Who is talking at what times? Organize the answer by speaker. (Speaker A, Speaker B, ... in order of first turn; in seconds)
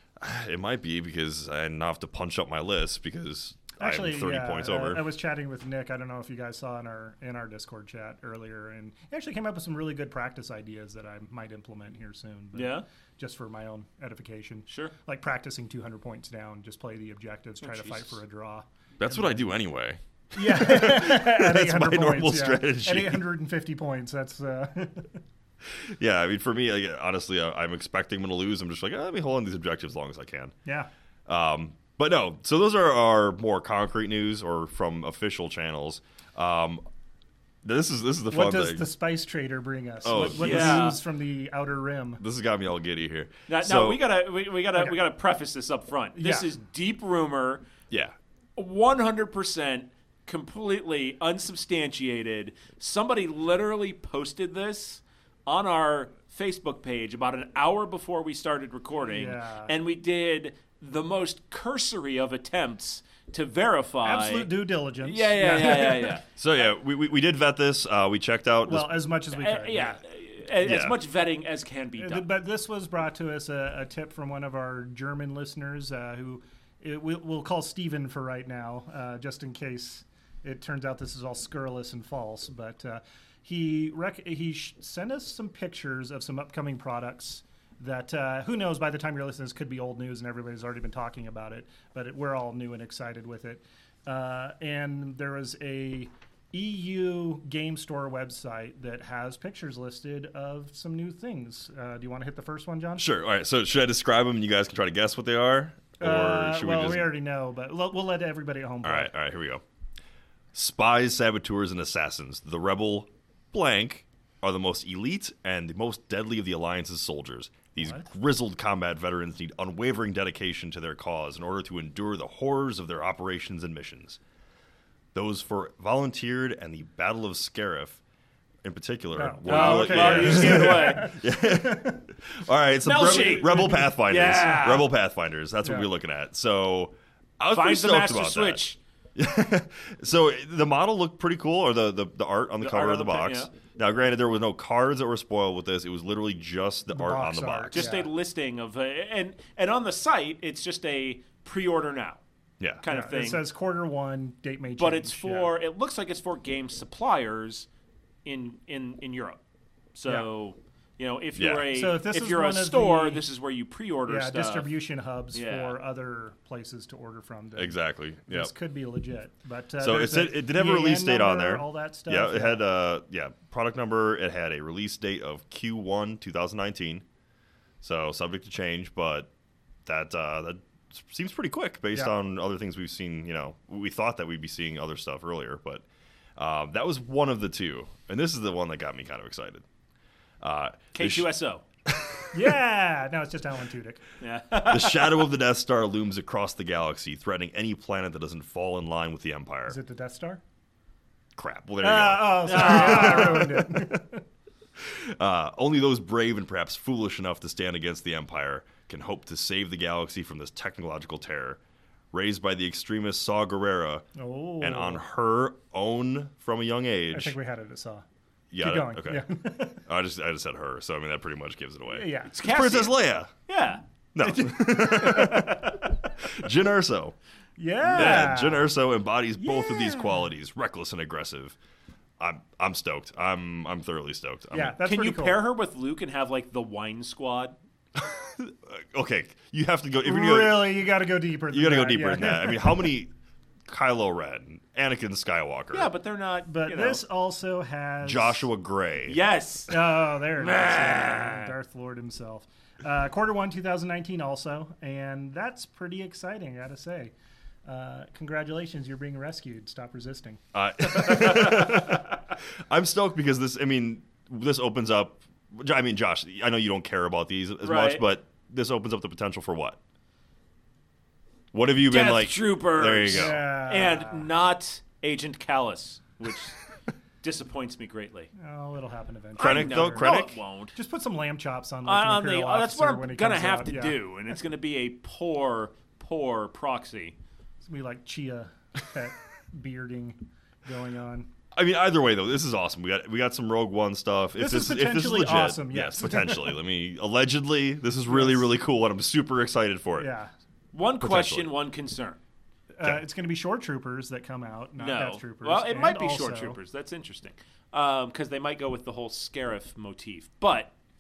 Speaker A: 0.2-5.1, 19.0-23.3, 25.6-30.6, 31.3-36.8, 37.6-38.9, 40.0-41.0, 42.2-44.0, 66.4-69.0, 70.6-71.0, 103.0-107.1, 108.8-109.6, 110.5-124.2, 125.1-128.0, 128.6-138.6, 139.2-147.9, 161.4-161.7, 167.6-168.5, 169.8-177.1, 177.8-179.3, 179.9-185.8, 186.4-189.6, 190.4-191.3, 191.9-192.3, 194.7-199.8, 201.4-204.0, 204.8-211.6, 212.1-214.1, 214.6-217.4, 218.5-219.3, 219.8-223.3, 224.2-227.2, 227.9-231.6, 232.2-234.8, 237.9-240.9, 241.5-243.1, 243.7-245.9, 248.0-249.2, 260.5-269.8, 271.5-273.4, 279.4-280.4, 291.5-300.1, 301.0-301.5
Speaker B: 3.8-19.5, 20.3-25.2, 38.3-42.2, 46.2-46.5, 59.0-59.7, 64.0-66.2, 68.7-70.0, 72.0-103.1, 106.0-109.1, 117.8-118.1, 129.2-132.0, 132.9-133.9, 146.9-148.1, 152.9-155.6, 161.7-163.2, 164.1-172.6, 192.3-194.0, 199.7-200.4, 201.8-204.2, 214.2-215.0, 217.1-218.1, 218.6-219.8, 221.9-222.3, 224.3-225.4, 227.6-228.7, 229.4-230.2, 234.5-235.4, 240.0-242.9, 246.5-248.5, 249.7-257.1, 257.7-260.4, 260.9-261.4, 273.1-274.3, 278.4-280.1, 280.7-284.0, 287.6-291.3, 294.4-296.6, 298.1-298.5, 300.0-300.3, 302.7-306.6
Speaker C: 12.5-12.8, 14.7-14.9, 17.6-18.2, 40.3-41.0, 43.5-47.6, 48.6-66.2, 69.3-72.3, 129.5-131.1, 132.8-134.9, 137.5-138.8, 142.6-143.5, 147.7-152.2, 152.8-153.4, 154.8-157.7, 158.2-159.4, 159.9-164.7, 165.3-165.8, 190.9-191.6, 194.2-195.3, 202.5-203.5, 222.3-223.8, 224.4-225.9, 234.8-237.6, 245.7-247.0, 249.1-251.5, 267.6-268.0, 271.9-276.6, 277.2-278.3, 279.4-280.8, 281.9-287.2, 300.7-302.2, 304.8-310.7